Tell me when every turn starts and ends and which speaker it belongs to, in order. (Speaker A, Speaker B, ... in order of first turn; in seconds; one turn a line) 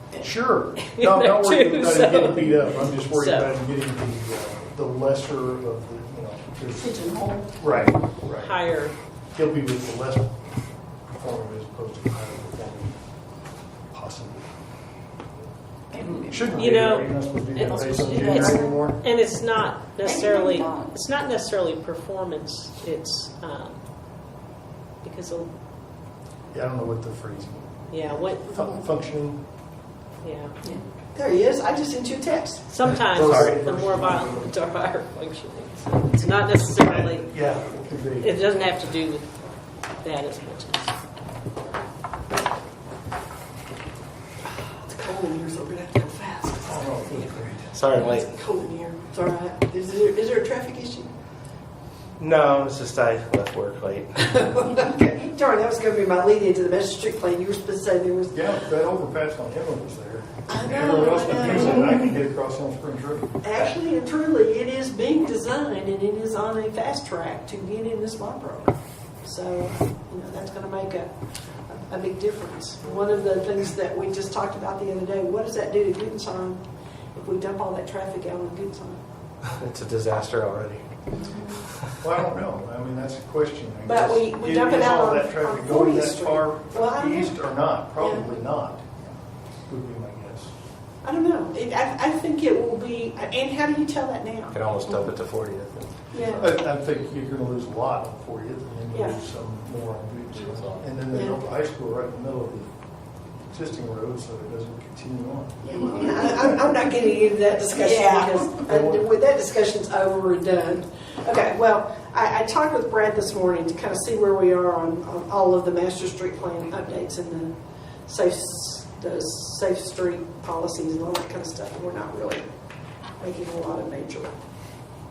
Speaker A: 0.2-7.0
Speaker B: 0.8-3.5
Speaker C: 6.8-7.8
Speaker A: 7.5-8.6
Speaker B: 8.3-8.9
Speaker A: 9.3-10.3
Speaker A: 11.1-13.0
Speaker A: 13.9-14.5
Speaker C: 15.9-16.5
Speaker A: 16.2-19.0
Speaker B: 16.5-23.8
Speaker C: 17.6-18.8
Speaker C: 20.0-21.0
Speaker B: 25.0-25.5
Speaker A: 26.5-29.4
Speaker B: 27.9-28.6
Speaker B: 30.2-30.5
Speaker D: 31.1-32.7
Speaker B: 32.7-37.4
Speaker A: 33.0-34.5
Speaker E: 33.1-33.6
Speaker A: 36.8-38.8
Speaker B: 38.2-39.3
Speaker B: 40.0-40.9
Speaker D: 44.4-51.1
Speaker A: 46.6-47.9
Speaker E: 47.7-48.3
Speaker E: 52.2-54.5
Speaker D: 54.4-58.5
Speaker A: 58.3-63.7
Speaker D: 60.5-62.0
Speaker D: 63.4-79.0
Speaker E: 79.5-80.8
Speaker D: 81.2-81.6
Speaker A: 82.0-89.1
Speaker D: 83.8-87.4
Speaker D: 88.0-88.3
Speaker A: 89.7-90.5
Speaker D: 91.0-95.0
Speaker E: 94.5-96.5
Speaker D: 96.1-96.5
Speaker A: 96.3-102.7
Speaker D: 98.9-99.2
Speaker E: 100.3-100.8
Speaker D: 101.1-101.4
Speaker A: 103.5-106.4
Speaker D: 105.6-117.5
Speaker C: 105.8-106.2
Speaker C: 107.7-108.5
Speaker A: 108.7-109.0
Speaker D: 118.0-122.5
Speaker D: 123.2-124.3